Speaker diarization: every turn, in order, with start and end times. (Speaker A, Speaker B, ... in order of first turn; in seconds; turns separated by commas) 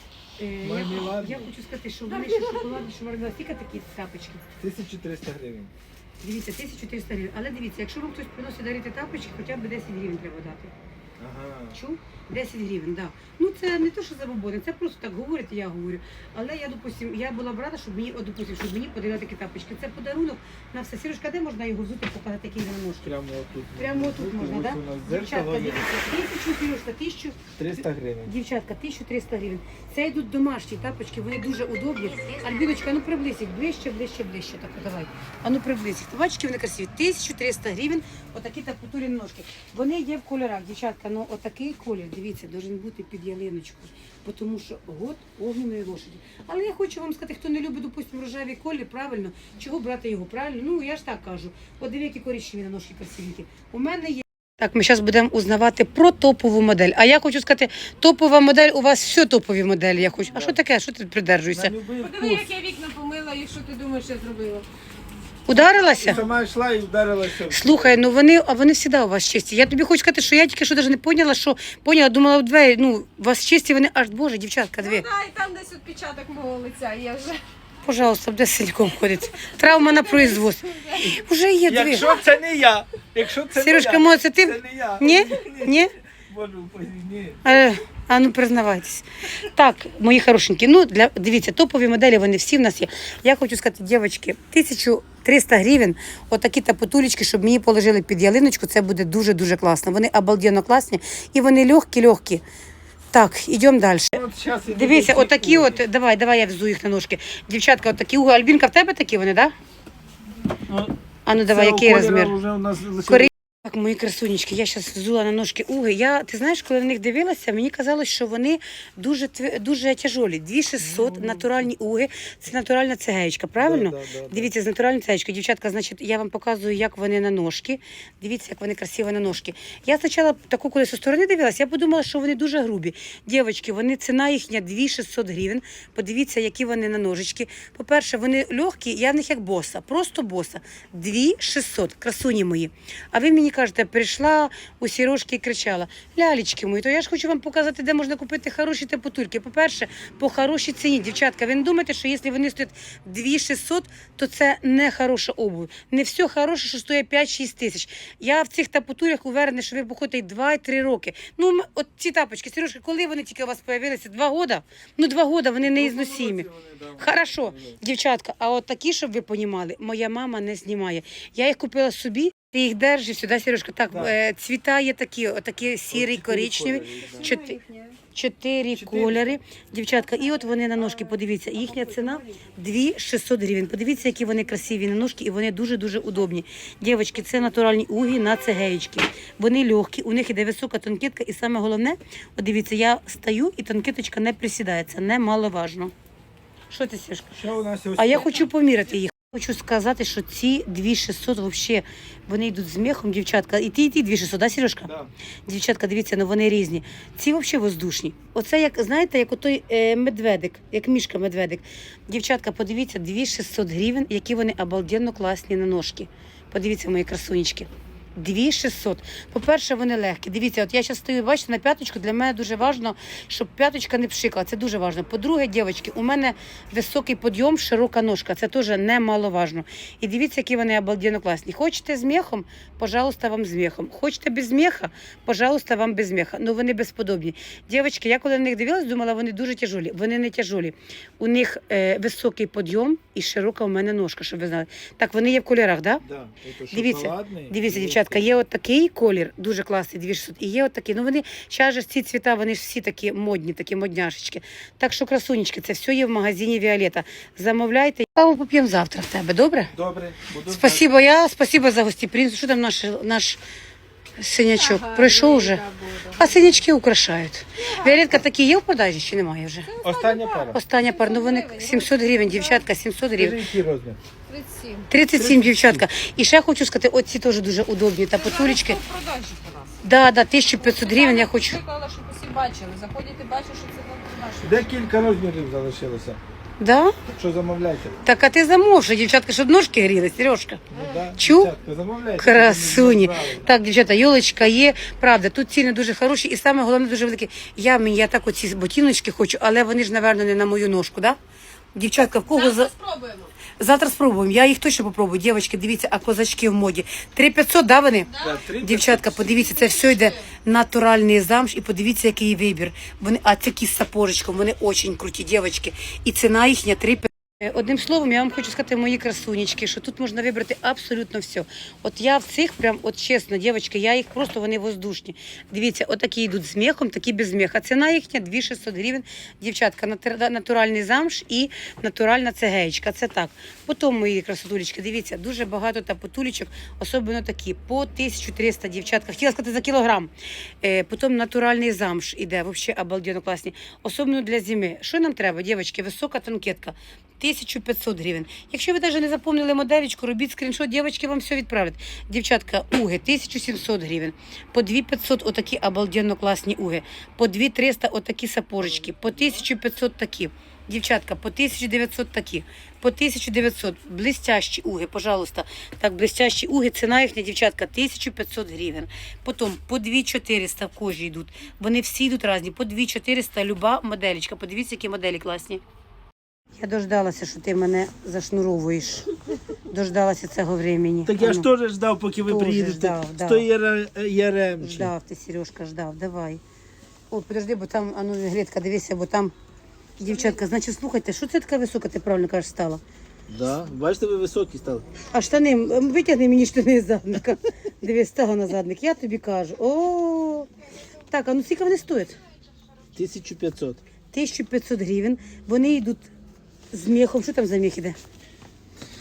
Speaker A: 0.4-4.4, Speaker B: 0.6-1.5, Speaker C: 2.1-2.9, Speaker B: 4.6-5.7, Speaker A: 6.2-10.7, Speaker B: 11.2-11.8, Speaker A: 11.7-23.1, Speaker B: 23.0-25.9, Speaker A: 23.8-27.5, Speaker B: 27.6-28.3, Speaker A: 28.2-61.7, Speaker B: 60.3-60.6, Speaker B: 61.5-62.5, Speaker C: 62.0-64.7, Speaker A: 65.5-66.2, Speaker B: 65.6-68.0, Speaker A: 67.5-75.0, Speaker C: 74.8-77.4, Speaker A: 77.8-82.2, Speaker C: 79.4-81.2, Speaker B: 81.7-87.5, Speaker A: 83.5-85.9, Speaker A: 87.4-102.4, Speaker A: 103.1-109.5, Speaker B: 104.1-105.8, Speaker A: 111.2-112.4, Speaker B: 111.4-113.3, Speaker A: 113.0-177.6, Speaker B: 120.8-121.5, Speaker B: 123.6-124.5, Speaker B: 165.6-167.8, Speaker B: 175.9-177.3, Speaker C: 176.9-178.0, Speaker A: 178.1-195.9, Speaker B: 178.7-179.2, Speaker C: 180.6-182.4, Speaker A: 196.7-197.4, Speaker B: 197.3-198.5, Speaker A: 198.0-204.9, Speaker B: 204.8-205.1, Speaker A: 205.4-246.0, Speaker B: 246.0-248.3, Speaker A: 246.7-259.7, Speaker B: 259.7-260.9, Speaker A: 260.4-263.4, Speaker A: 264.2-265.6, Speaker C: 264.5-266.6, Speaker A: 266.2-269.7, Speaker C: 267.6-268.1, Speaker C: 269.6-272.6, Speaker B: 269.8-270.6, Speaker A: 270.5-273.4, Speaker B: 273.2-274.0, Speaker C: 274.3-274.9, Speaker A: 274.9-278.8, Speaker B: 275.1-275.8, Speaker C: 278.1-279.8, Speaker A: 279.8-281.6, Speaker C: 280.6-284.7, Speaker B: 284.4-286.2, Speaker A: 286.6-286.9, Speaker B: 287.1-288.0, Speaker A: 288.0-290.6, Speaker B: 290.7-293.5, Speaker C: 290.7-291.1, Speaker A: 291.1-291.5, Speaker A: 292.2-301.2, Speaker A: 301.7-302.7, Speaker C: 302.3-303.3, Speaker A: 303.6-375.6, Speaker C: 308.1-308.4, Speaker B: 308.2-309.4, Speaker C: 309.2-310.3, Speaker A: 376.6-379.1, Speaker A: 379.7-381.5, Speaker B: 381.1-384.9, Speaker A: 382.2-383.5, Speaker A: 384.6-386.4, Speaker A: 387.1-389.3, Speaker A: 390.0-392.8, Speaker B: 393.3-394.9, Speaker A: 395.1-400.5, Speaker A: 401.1-402.1, Speaker B: 402.9-403.8, Speaker A: 404.1-406.1, Speaker A: 406.7-408.0